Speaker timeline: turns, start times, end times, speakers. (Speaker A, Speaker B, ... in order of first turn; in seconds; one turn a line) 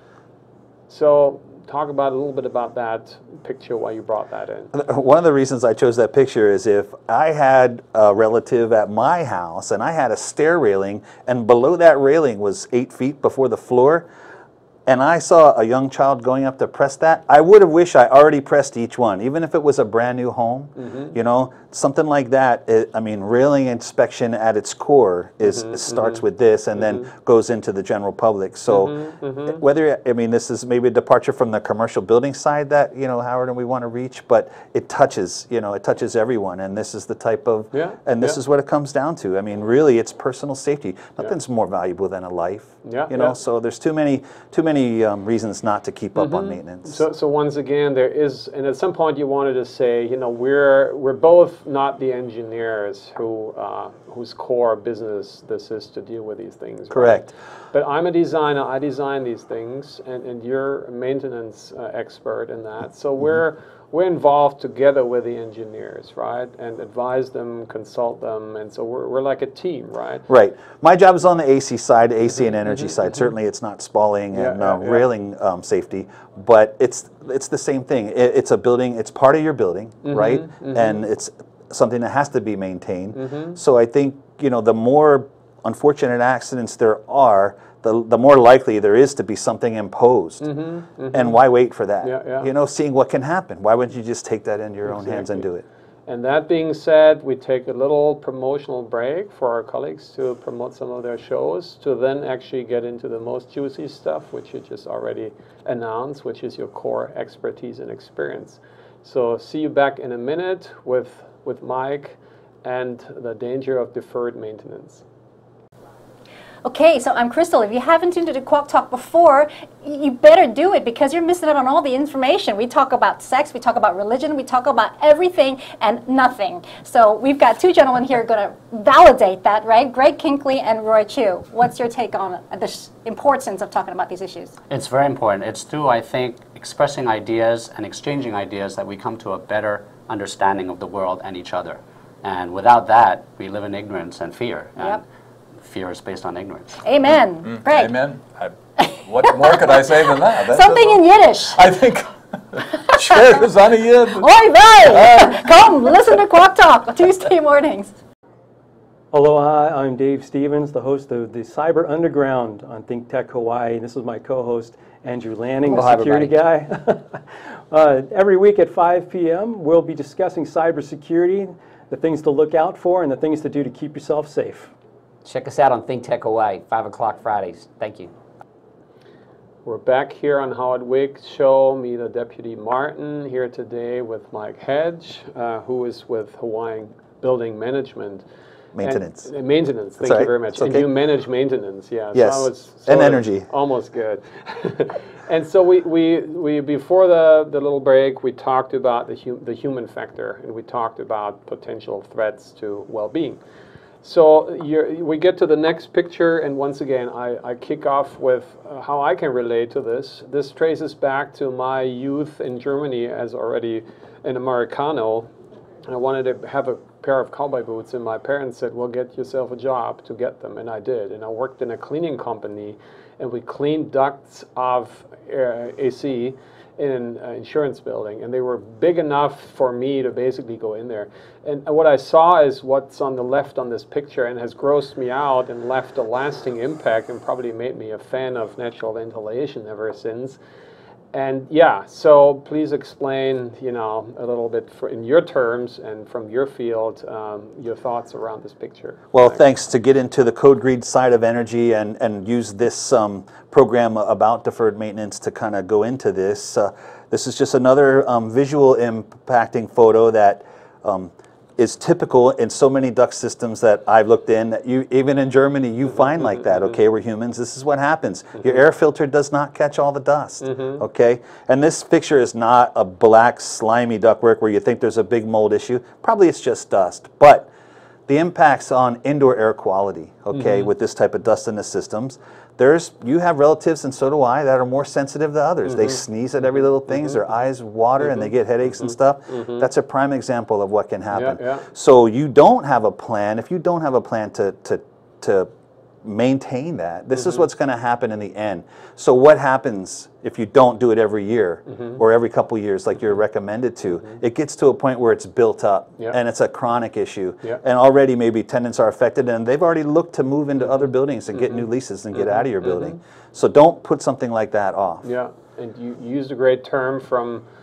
Speaker A: 0.9-4.7
Speaker B: 4.7-14.1
Speaker B: 14.9-47.0
Speaker A: 20.8-21.1
Speaker A: 25.5-26.2
Speaker A: 28.7-29.6
Speaker A: 37.7-38.4
Speaker A: 42.8-43.4
Speaker A: 46.2-70.3
Speaker B: 56.9-57.3
Speaker B: 70.3-90.5
Speaker A: 74.3-75.1
Speaker A: 80.0-81.0
Speaker A: 83.2-83.6
Speaker A: 90.4-91.4
Speaker B: 91.1-95.7
Speaker A: 92.0-92.5
Speaker A: 94.9-95.5
Speaker A: 96.1-115.0
Speaker C: 116.7-134.5
Speaker D: 134.7-145.1
Speaker D: 145.6-146.8
Speaker C: 146.8-148.0
Speaker E: 147.4-154.3
Speaker C: 148.8-151.7
Speaker C: 154.2-157.9
Speaker E: 154.9-155.4
Speaker F: 159.1-174.7
Speaker G: 165.7-166.3
Speaker G: 175.2-178.1
Speaker A: 179.7-188.2
Speaker B: 188.8-189.3
Speaker A: 188.8-203.4
Speaker B: 190.0-190.9
Speaker B: 192.1-193.5
Speaker A: 204.0-215.3
Speaker A: 215.9-240.4
Speaker A: 241.1-249.4
Speaker B: 249.1-277.5
Speaker A: 270.4-270.8
Speaker B: 278.1-295.5
Speaker A: 280.4-280.6
Speaker A: 285.7-286.0
Speaker A: 288.9-289.6
Speaker A: 291.1-291.7
Speaker B: 296.0-315.1
Speaker A: 297.2-297.4
Speaker A: 311.4-311.6
Speaker A: 312.2-312.9
Speaker A: 315.0-317.4